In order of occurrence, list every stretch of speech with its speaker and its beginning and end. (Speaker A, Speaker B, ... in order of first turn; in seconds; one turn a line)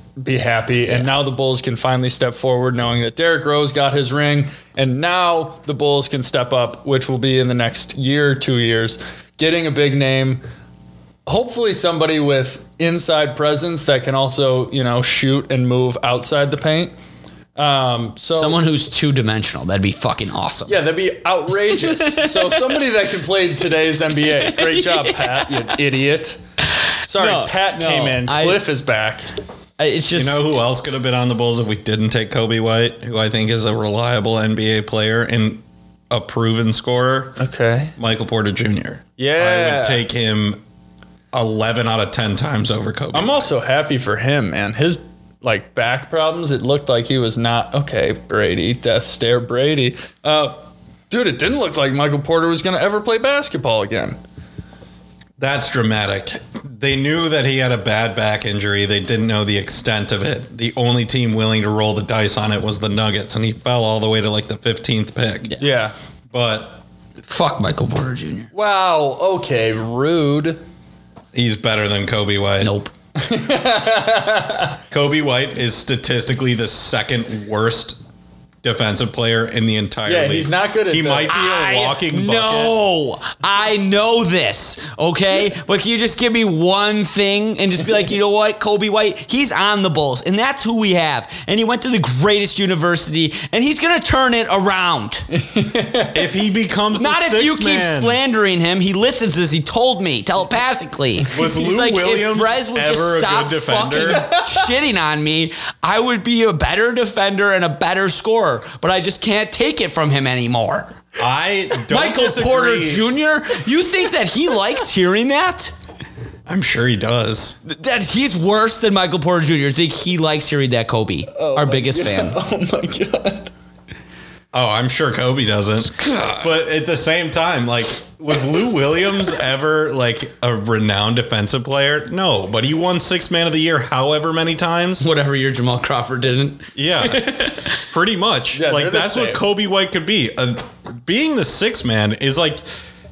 Speaker A: 0.2-10.4
Speaker A: 11.2-16.9
Speaker A: 17.6-18.6
Speaker B: 18.3-20.8
Speaker A: 20.7-26.4
Speaker B: 21.6-22.8
Speaker B: 24.3-25.6
Speaker A: 27.1-29.2
Speaker B: 27.1-28.6
Speaker B: 29.8-30.5
Speaker C: 30.1-37.4
Speaker A: 37.4-37.9
Speaker C: 38.0-40.6
Speaker A: 39.2-40.0
Speaker C: 41.3-43.5
Speaker A: 43.1-54.2
Speaker C: 55.4-65.5
Speaker A: 65.6-65.9
Speaker C: 66.3-66.8
Speaker B: 67.3-68.5
Speaker A: 68.5-70.6
Speaker C: 71.3-72.7
Speaker B: 72.6-72.9
Speaker A: 73.2-74.8
Speaker C: 74.9-78.0
Speaker C: 78.6-82.7
Speaker A: 80.0-81.9
Speaker B: 81.3-95.3
Speaker A: 95.3-96.3
Speaker C: 96.1-98.2
Speaker B: 96.9-111.0
Speaker C: 101.3-104.2
Speaker A: 104.1-104.7
Speaker C: 111.2-113.0
Speaker B: 111.9-115.7
Speaker C: 116.5-117.6
Speaker B: 117.6-122.4
Speaker A: 121.3-123.5
Speaker C: 124.5-135.0
Speaker B: 125.9-126.5
Speaker B: 135.0-137.8
Speaker C: 136.7-142.6
Speaker A: 138.5-139.4